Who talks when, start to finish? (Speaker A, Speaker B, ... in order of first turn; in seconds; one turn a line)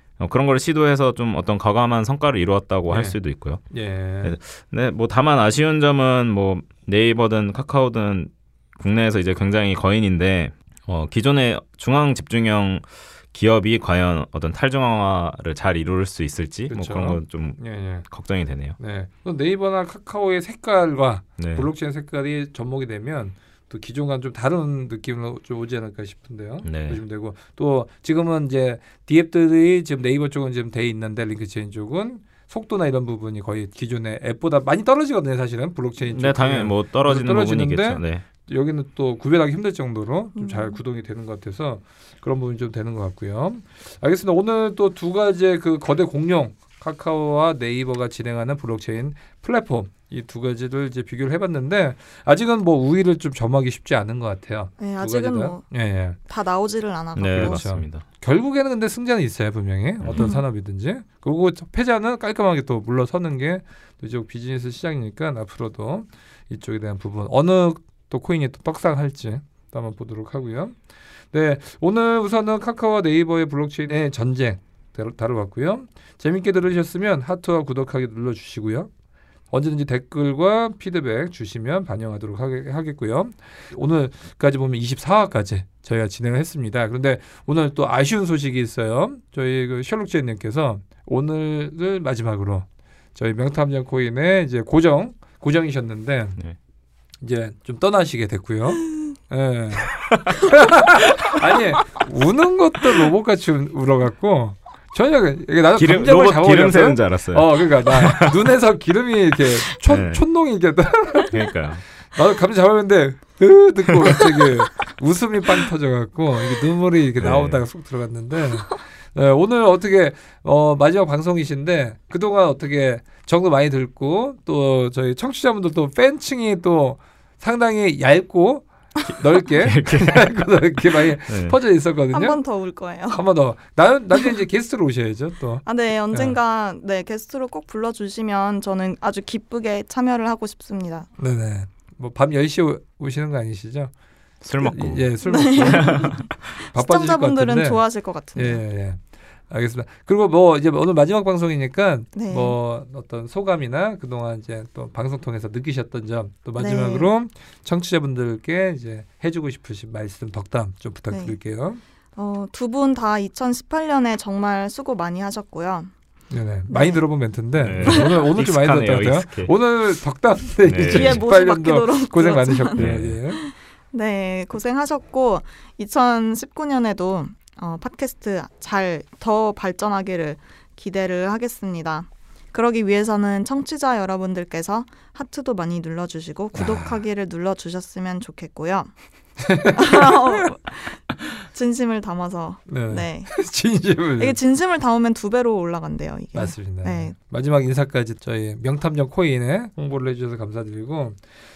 Speaker A: 0.2-3.6
Speaker B: 2.9-3.2
Speaker B: 3.7-4.4
Speaker A: 4.2-18.8
Speaker B: 16.7-18.1
Speaker B: 18.8-56.2
Speaker A: 21.4-21.7
Speaker A: 26.6-27.0
Speaker A: 36.1-38.2
Speaker C: 40.4-40.8
Speaker C: 54.8-55.6
Speaker C: 56.3-57.6
Speaker A: 57.2-58.0
Speaker B: 57.3-70.8
Speaker A: 60.0-60.3
Speaker C: 60.2-60.4
Speaker B: 71.3-78.9
Speaker B: 79.5-96.4
Speaker B: 97.2-111.5
Speaker A: 100.0-100.4
Speaker A: 105.8-108.5
Speaker A: 109.7-110.2
Speaker A: 111.3-111.8
Speaker B: 112.1-132.4
Speaker A: 114.0-114.5
Speaker A: 117.2-117.6
Speaker A: 129.6-130.3
Speaker A: 131.3-131.6
Speaker C: 132.1-133.2
Speaker B: 133.1-136.4
Speaker C: 135.7-141.1
Speaker B: 141.2-143.9
Speaker A: 144.4-145.1
Speaker B: 144.6-147.8
Speaker C: 145.2-148.6
Speaker A: 145.6-146.2
Speaker B: 148.3-161.8
Speaker C: 152.2-152.6
Speaker C: 156.6-157.1
Speaker C: 161.1-161.3
Speaker C: 162.2-165.9
Speaker B: 166.3-173.4
Speaker C: 166.7-167.0
Speaker A: 167.6-169.5
Speaker C: 167.8-168.1
Speaker A: 170.6-171.2
Speaker C: 170.9-188.9
Speaker A: 172.8-173.2
Speaker A: 186.6-186.9
Speaker B: 189.4-190.5
Speaker C: 189.7-193.3
Speaker B: 192.7-194.4
Speaker C: 194.2-197.1
Speaker B: 196.3-201.2